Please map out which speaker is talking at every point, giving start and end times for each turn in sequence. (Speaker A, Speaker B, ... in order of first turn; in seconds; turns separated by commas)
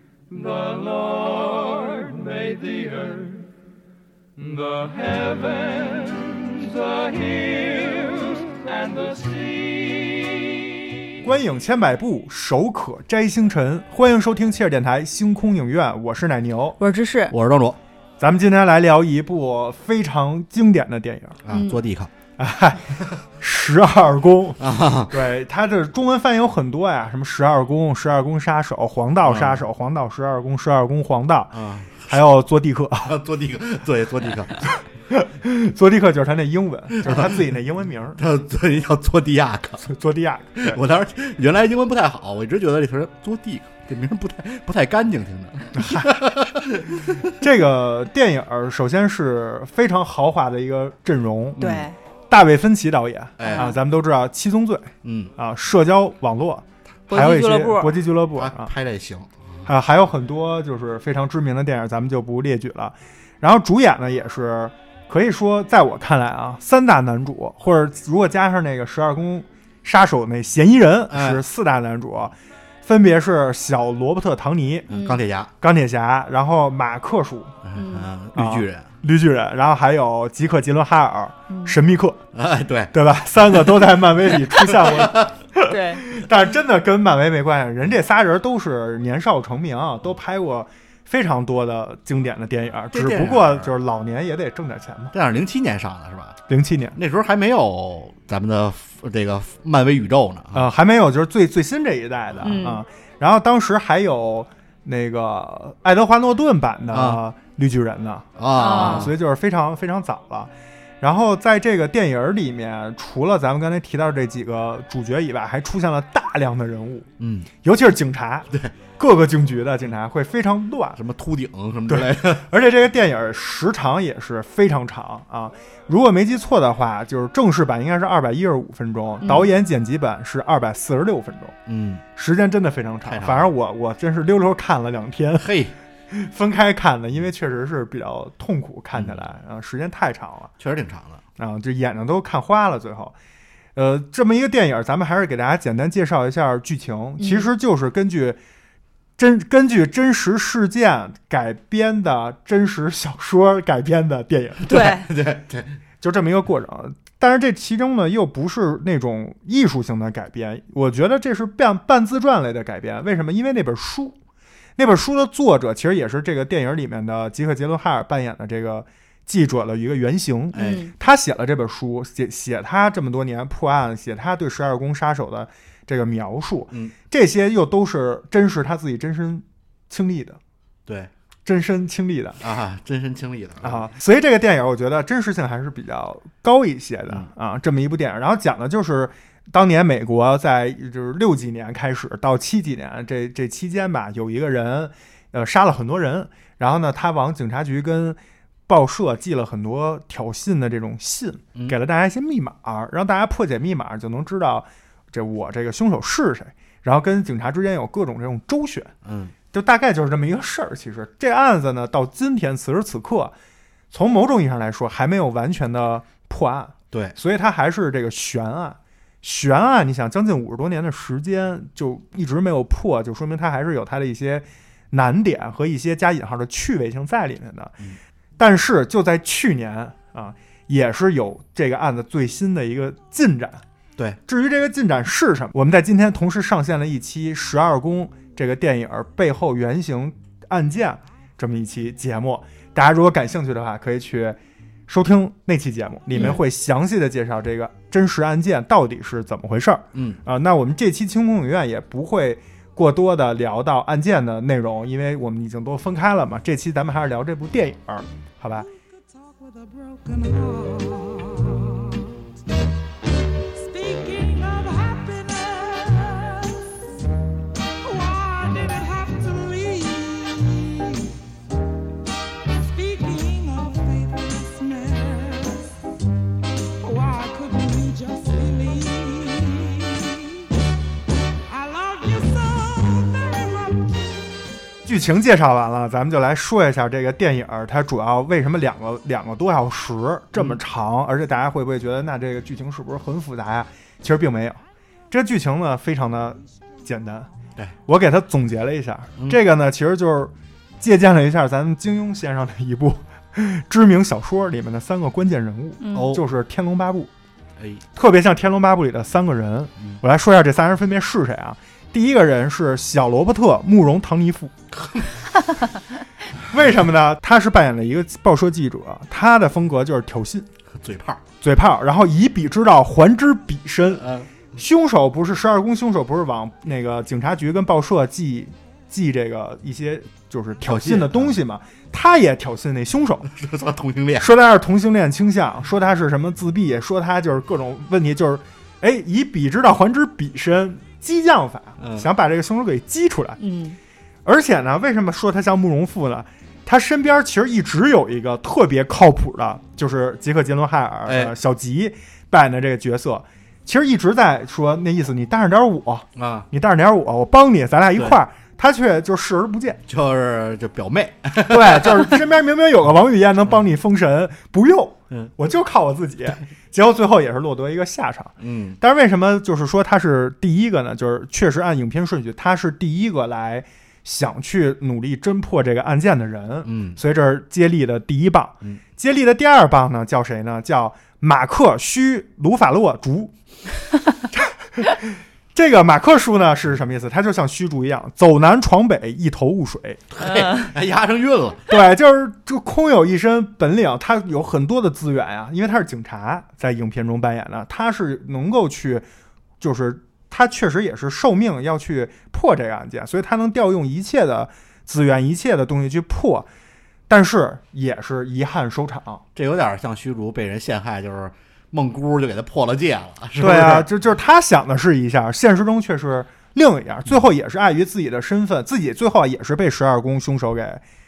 Speaker A: 0.5-1.1, Speaker A: 4.5-5.5, Speaker A: 8.8-9.5, Speaker B: 11.2-16.8, Speaker C: 16.8-17.3, Speaker D: 17.3-17.8, Speaker B: 18.2-21.4, Speaker D: 21.4-22.1, Speaker C: 21.5-21.8, Speaker B: 22.4-31.5, Speaker D: 24.6-25.1, Speaker D: 29.2-29.6, Speaker D: 31.5-32.1, Speaker B: 32.0-33.2, Speaker D: 33.1-34.7, Speaker B: 35.1-38.2, Speaker D: 37.0-37.5, Speaker D: 38.2-39.8, Speaker B: 39.8-40.8, Speaker D: 40.6-47.3, Speaker B: 45.7-46.2, Speaker B: 47.2-51.6, Speaker D: 51.6-51.9, Speaker C: 51.6-51.9, Speaker B: 52.3-58.7, Speaker D: 53.4-53.7, Speaker C: 53.4-53.8, Speaker D: 55.0-55.3, Speaker C: 57.1-57.9, Speaker D: 58.4-59.7, Speaker B: 59.6-74.9, Speaker D: 71.1-71.4, Speaker D: 74.9-75.5, Speaker C: 74.9-75.2, Speaker B: 75.6-77.5, Speaker D: 77.6-78.9, Speaker C: 77.7-78.1, Speaker B: 78.3-82.2, Speaker C: 81.5-81.7, Speaker D: 82.3-85.3, Speaker B: 82.9-95.1, Speaker C: 85.7-86.0, Speaker D: 92.9-93.7, Speaker D: 95.1-96.4, Speaker B: 96.5-97.0, Speaker D: 97.0-100.7, Speaker B: 100.5-117.1, Speaker C: 102.4-102.8, Speaker D: 106.9-107.2, Speaker D: 108.4-109.1, Speaker C: 108.6-109.1, Speaker D: 117.2-117.5, Speaker B: 117.6-121.0, Speaker D: 121.0-122.4, Speaker B: 121.9-131.6, Speaker C: 129.2-129.5, Speaker D: 131.7-132.0, Speaker B: 132.2-135.5, Speaker D: 133.1-133.5, Speaker D: 135.4-135.7, Speaker B: 136.1-140.5, Speaker D: 138.9-139.2, Speaker D: 140.6-141.2, Speaker B: 141.4-143.1, Speaker B: 143.8-148.4, Speaker C: 147.2-147.5, Speaker B: 149.2-154.8, Speaker D: 154.7-155.8, Speaker C: 154.7-155.1, Speaker B: 156.0-164.2, Speaker B: 164.8-180.4, Speaker D: 170.5-170.9, Speaker C: 170.5-170.9, Speaker B: 181.4-182.4, Speaker D: 182.4-183.8, Speaker B: 183.6-198.2, Speaker B: 198.7-208.9, Speaker D: 209.0-209.3, Speaker B: 209.5-213.3, Speaker B: 213.9-227.8, Speaker B: 228.4-233.6, Speaker B: 234.3-258.7, Speaker D: 249.9-250.2, Speaker E: 258.8-262.2, Speaker E: 263.5-266.7, Speaker E: 267.8-271.1, Speaker E: 272.5-275.7, Speaker E: 276.8-280.5, Speaker E: 281.5-284.1, Speaker B: 284.8-297.3, Speaker D: 290.3-290.6, Speaker B: 297.9-307.1, Speaker C: 305.8-306.1, Speaker D: 305.9-306.2, Speaker B: 307.9-314.5, Speaker D: 314.7-315.1, Speaker B: 316.5-320.5, Speaker D: 320.8-321.2, Speaker B: 321.4-333.3, Speaker D: 323.9-324.4, Speaker D: 330.6-331.4, Speaker D: 333.3-334.3, Speaker B: 334.2-343.4, Speaker D: 341.8-342.1, Speaker C: 343.4-343.8, Speaker B: 344.2-359.8, Speaker D: 351.1-351.3, Speaker D: 356.1-356.4, Speaker D: 359.9-362.1, Speaker B: 361.4-383.3, Speaker D: 368.4-368.8, Speaker D: 376.6-377.0, Speaker B: 384.3-390.0, Speaker D: 390.1-391.7, Speaker C: 390.2-390.7, Speaker B: 391.7-399.1, Speaker B: 399.6-406.5, Speaker B: 407.1-409.2, Speaker D: 409.4-413.9, Speaker B: 413.4-420.8